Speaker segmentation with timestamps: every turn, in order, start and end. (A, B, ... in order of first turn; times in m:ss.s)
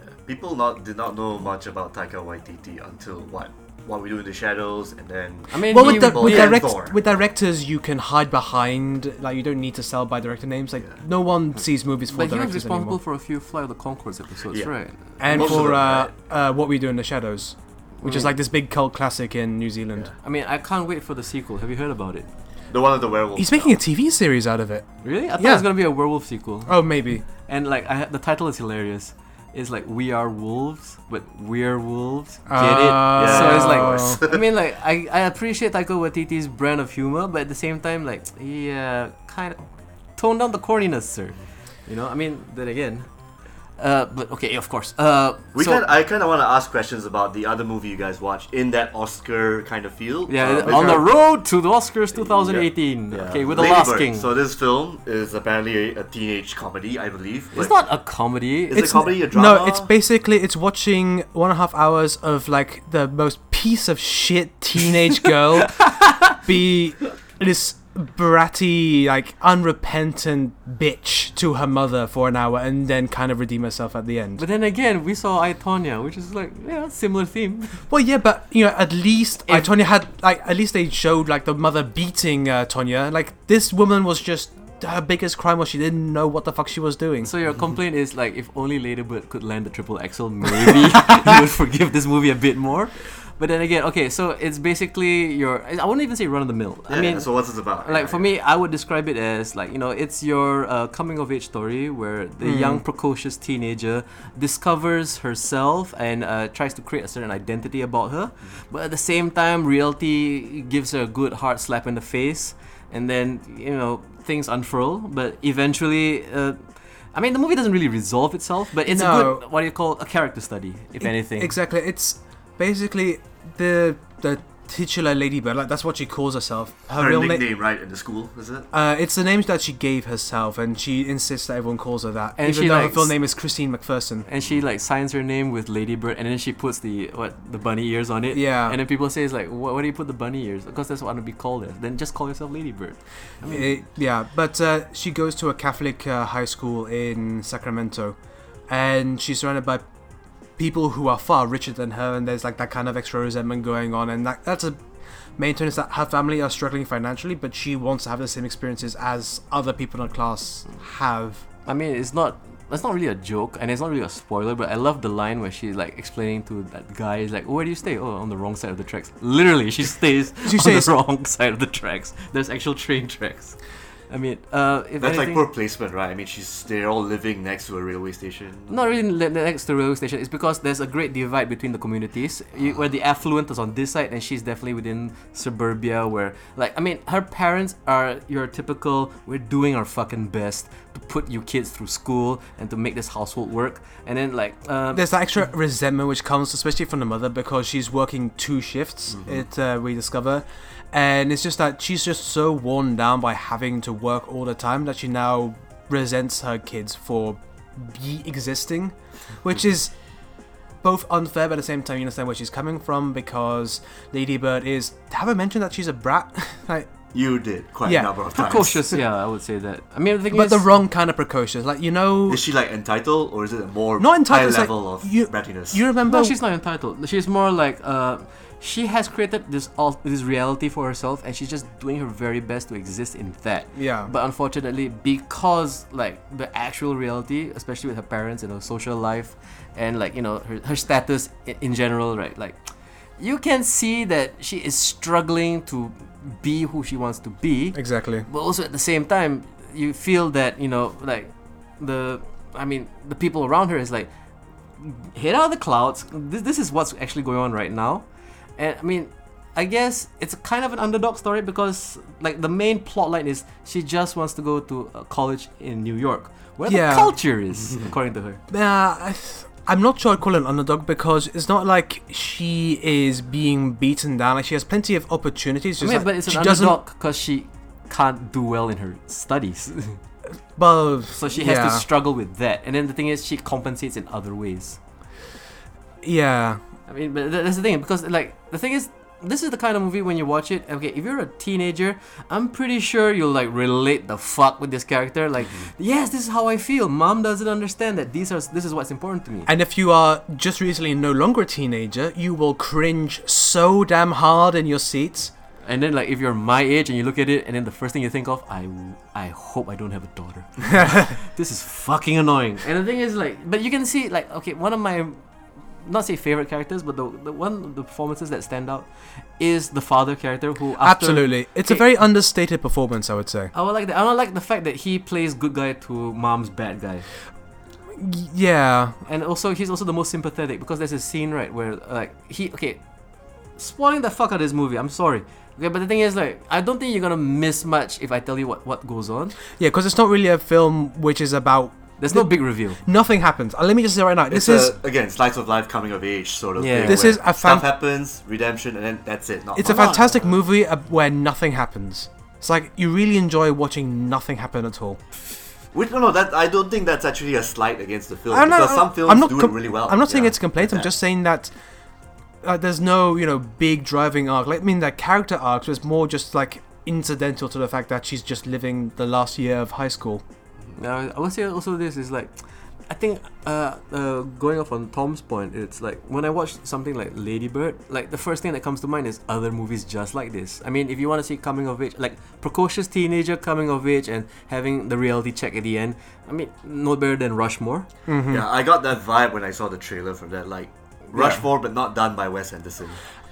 0:00.2-0:07.1 A
0:05.5-0:06.6 B
0:05.7-0:13.0 C
0:12.1-0:15.5 B
0:14.5-0:16.1 A
0:15.2-0:20.1 C
0:18.0-0:18.3 B
0:20.2-0:22.3 B
0:22.7-0:23.8 A
0:23.4-0:25.7 C
0:25.0-0:26.8 B
0:26.7-0:27.2 C
0:27.3-0:39.6 B
0:32.5-0:34.2 C
0:32.6-0:34.4 A
0:40.2-0:43.1 B
0:43.8-0:45.8 B
0:45.6-0:51.1 A
0:50.3-0:54.3 B
0:50.7-0:51.0 C
0:52.1-0:57.8 A
0:57.5-0:59.0 B
0:58.7-0:59.9 A
0:58.7-1:14.4 C
1:14.4-1:17.8 B
1:17.9-1:27.3 C
1:27.2-1:56.6 B
1:36.9-1:38.3 A
1:42.4-1:42.8 C
1:57.1-2:01.5 B
1:58.9-1:59.4 C
2:01.0-2:07.4 C
2:07.0-2:08.7 A
2:08.7-2:14.3 C
2:12.4-2:13.1 B
2:14.3-2:23.8 B
2:18.3-2:18.8 C
2:23.4-2:28.2 C
2:28.7-2:29.8 C
2:30.6-2:34.8 C
2:35.4-2:41.4 C
2:41.7-2:53.6 B
2:50.4-2:50.9 C
2:54.1-2:55.4 B
2:55.0-2:58.8 A
2:58.7-3:15.1 B
3:14.9-3:29.9 C
3:19.2-3:19.4 A
3:30.8-3:36.9 C
3:37.1-3:39.0 A
3:37.8-3:38.1 C
3:38.3-3:40.7 B
3:40.3-3:42.4 C
3:42.3-3:45.8 A
3:44.0-3:46.4 C
3:46.0-4:02.6 B
3:53.8-3:54.1 C
4:03.2-4:14.1 B
4:07.8-4:08.3 C
4:14.8-4:18.0 B
4:18.6-4:28.4 B
4:26.7-4:27.2 C
4:28.5-4:36.8 C
4:35.8-4:40.0 B
4:40.6-4:41.8 C
4:41.1-4:44.8 B
4:46.0-4:46.6 C
4:46.9-4:59.5 B
4:59.5-5:05.3 C
5:05.6-5:15.2 B
5:10.8-5:11.0 C
5:15.8-5:21.9 B
5:20.8-5:23.5 C
5:23.5-5:27.1 B
5:28.0-5:29.0 C
5:29.0-5:32.8 B
5:33.6-5:39.4 B
5:39.6-5:44.8 C
5:42.0-5:42.8 B
5:44.3-5:49.9 A
5:46.6-5:47.1 B
5:46.8-5:47.7 C
5:49.6-5:55.0 C
5:49.6-5:50.4 B
5:55.7-6:00.9 A
5:58.3-6:01.5 C
6:02.4-6:10.2 C
6:10.8-6:12.3 B
6:12.9-6:27.9 B
6:28.1-6:28.5 C
6:28.3-6:33.0 A
6:31.1-6:31.4 B